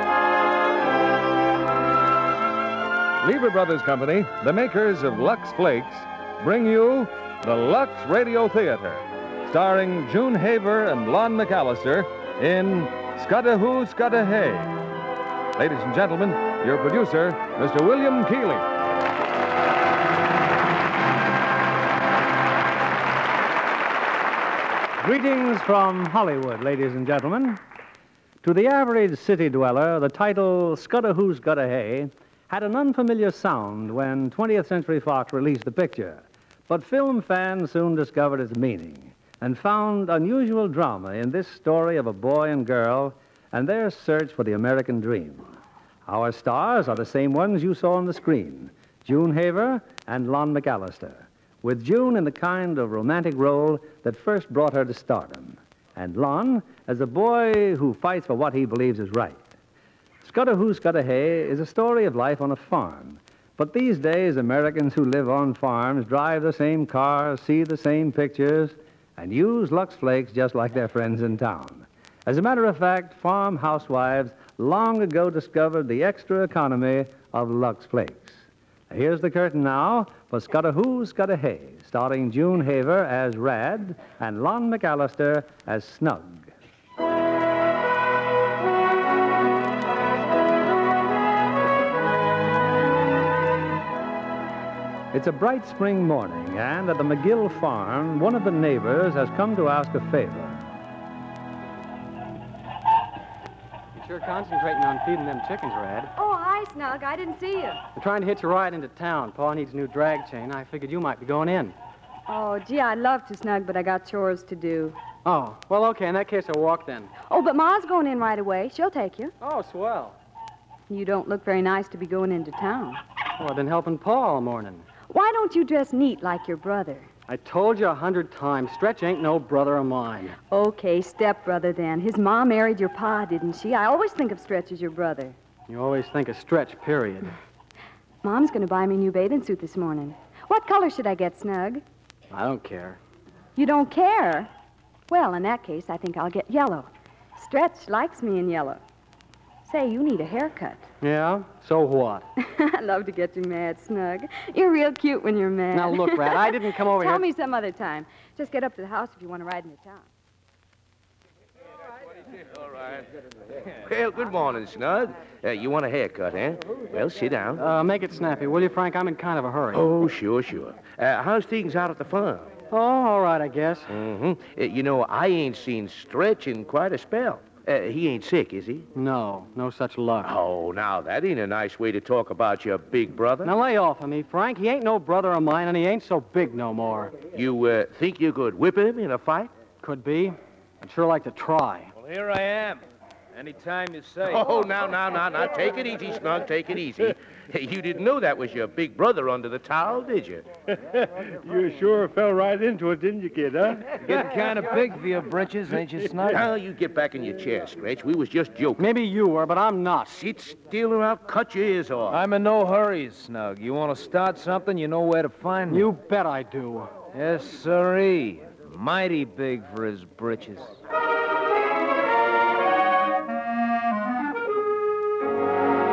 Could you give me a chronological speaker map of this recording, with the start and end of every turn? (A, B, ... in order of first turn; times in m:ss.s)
0:03.2-0:14.7 A
0:15.6-0:18.6 A
0:25.0-0:27.6 B
0:28.4-0:59.4 B
1:00.2-1:26.5 B
1:35.1-1:40.6 B
1:44.0-1:46.1 C
1:46.2-1:47.8 D
1:47.9-1:51.8 C
1:52.3-1:55.0 D
1:55.2-1:57.1 C
1:57.3-1:59.3 D
1:59.4-2:00.2 C
2:00.9-2:03.0 D
2:03.4-2:04.9 C
2:05.1-2:07.1 D
2:07.3-2:10.4 C
2:10.5-2:15.4 D
2:15.7-2:17.3 C
2:18.2-2:21.8 D
2:22.3-2:23.0 C
2:23.6-2:24.5 D
2:25.1-2:28.8 D
2:29.6-2:30.9 D
2:31.0-2:32.2 C
2:32.4-2:40.0 D
2:35.7-2:37.2 C
2:42.8-2:43.0 E
2:43.8-2:47.6 E
2:47.6-2:49.9 C
2:49.7-2:52.5 E
2:52.7-2:53.9 C
2:53.9-2:58.9 E
2:58.9-3:00.4 C
3:00.2-3:03.5 E
3:03.4-3:07.1 C
3:07.3-3:09.5 E
3:09.8-3:11.9 C
3:12.0-3:12.8 F
3:13.3-3:14.6 F
3:14.2-3:20.5 E
3:20.7-3:24.2 G
3:24.0-3:26.4 F
3:26.3-3:28.8 E
3:28.8-3:30.1 C
3:30.1-3:32.2 E
3:32.1-3:35.9 F
3:35.7-3:36.9 C
3:37.1-3:40.8 F